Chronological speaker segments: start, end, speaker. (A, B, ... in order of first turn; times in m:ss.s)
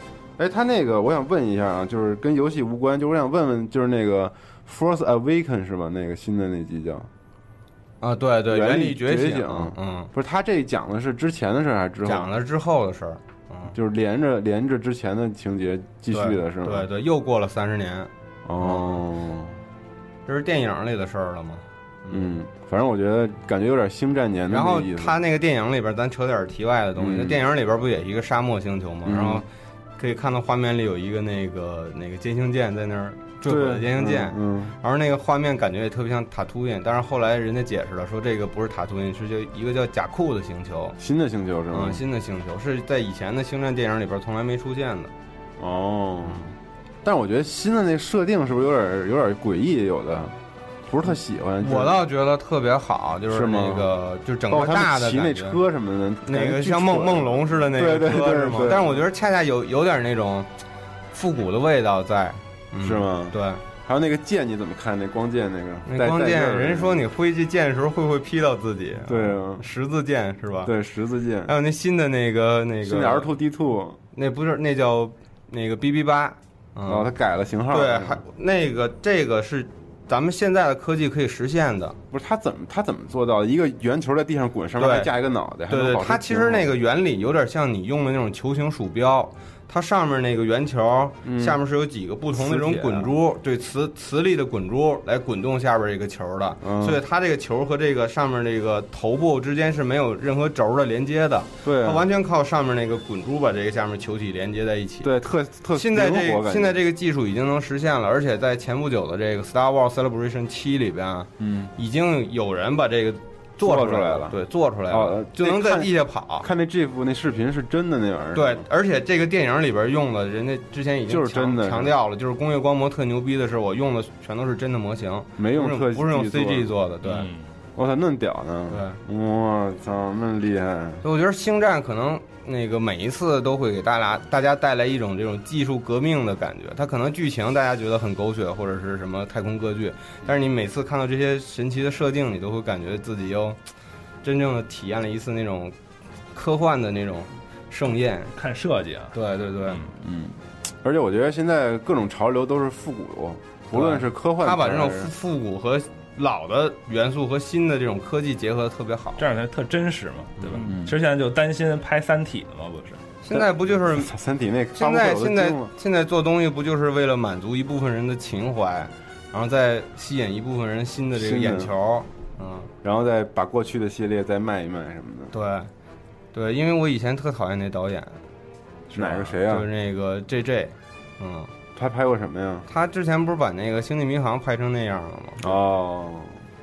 0:00.4-0:07.1 A
0:08.0-0:10.1 B
0:08.5-0:12.3 A
0:12.0-0:13.7 B
0:13.7-0:16.9 A
0:16.1-0:19.0 B
0:18.4-0:19.6 A
0:20.2-0:22.3 B
0:22.1-0:25.2 A
0:24.5-0:29.4 B
0:27.0-0:27.4 A
0:29.0-0:29.4 A
0:30.0-0:41.0 B
0:33.4-0:34.8 A
0:41.0-0:42.0 A
0:41.7-0:45.1 B
0:45.6-0:50.4 A
0:50.9-0:52.0 A
0:51.6-0:55.6 B
0:53.3-0:53.9 A
0:54.5-0:59.0 A
0:56.2-1:00.5 B
1:01.1-1:03.6 B
1:02.8-1:07.0 A
1:05.8-1:10.7 B
1:09.0-1:09.6 A
1:10.6-1:11.5 A
1:11.4-1:13.3 B
1:12.8-1:14.0 A
1:14.1-1:17.1 B
1:16.8-1:18.2 A
1:17.7-1:22.0 B
1:22.1-1:26.7 A
1:24.8-1:25.1 B
1:25.7-1:45.1 B
1:31.2-1:31.6 A
1:32.3-1:33.1 A
1:36.6-1:37.0 A
1:41.6-1:42.0 A
1:45.0-1:46.8 A
1:45.7-1:56.5 B
1:51.4-1:51.7 A
1:53.6-1:54.4 A
1:54.9-1:58.6 A
1:58.3-2:07.3 B
2:01.1-2:01.9 A
2:05.4-2:06.7 A
2:07.0-2:07.5 C
2:07.8-2:11.0 A
2:08.7-2:09.0 B
2:11.0-2:23.6 B
2:24.2-2:25.8 B
2:26.3-2:28.3 B
2:28.3-2:29.1 C
2:29.1-2:29.8 B
2:30.0-2:35.1 A
2:33.7-2:39.2 B
2:39.2-2:43.0 C
2:40.6-2:41.0 A
2:43.2-2:44.1 B
2:43.4-2:45.7 A
2:44.7-2:52.7 B
2:51.2-2:51.7 A
2:52.8-2:55.3 A
2:55.3-2:55.7 B
2:56.3-2:58.2 B
2:58.9-2:59.7 A
2:59.0-3:01.5 B
3:01.8-3:02.7 A
3:02.7-3:05.4 B
3:05.4-3:06.4 A